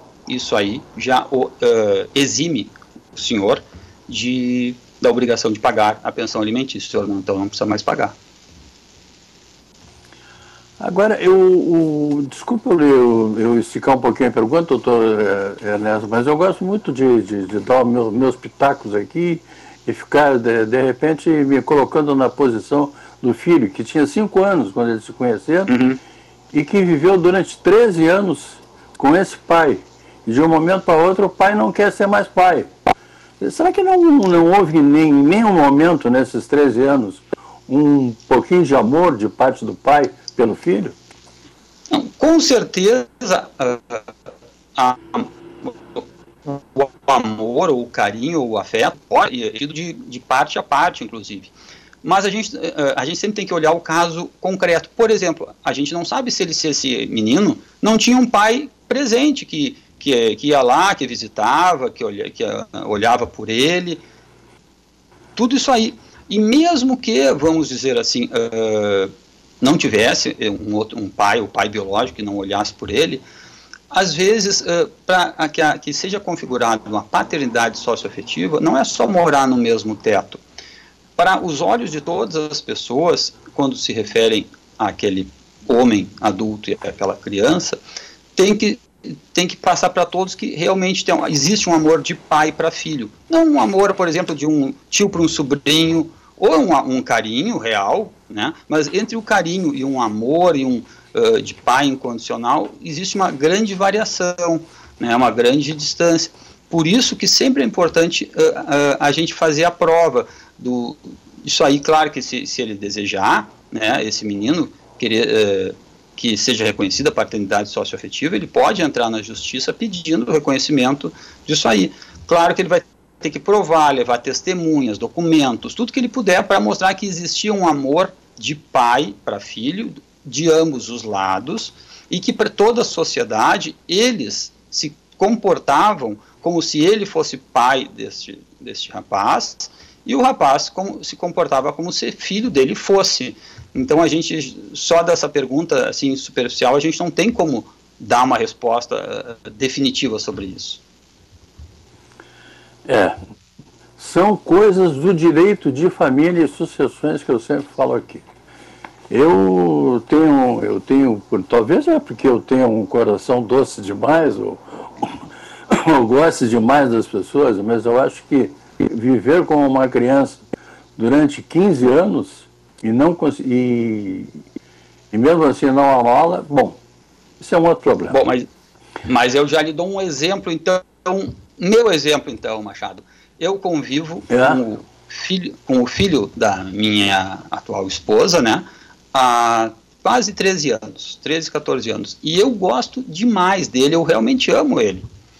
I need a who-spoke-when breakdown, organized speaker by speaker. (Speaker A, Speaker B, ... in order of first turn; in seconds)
Speaker A: 0.3-8.1, 25.7-26.0, 41.9-44.0, 44.8-64.0, 65.3-73.2, 73.9-80.4, 81.2-87.8, 88.3-150.8, 178.1-178.4, 179.1-195.1
Speaker B: 10.8-25.7, 26.5-32.7, 33.4-41.0, 152.8-153.2, 154.0-158.2, 159.1-170.4, 170.9-174.4, 175.1-176.8, 177.4-178.2, 184.3-184.6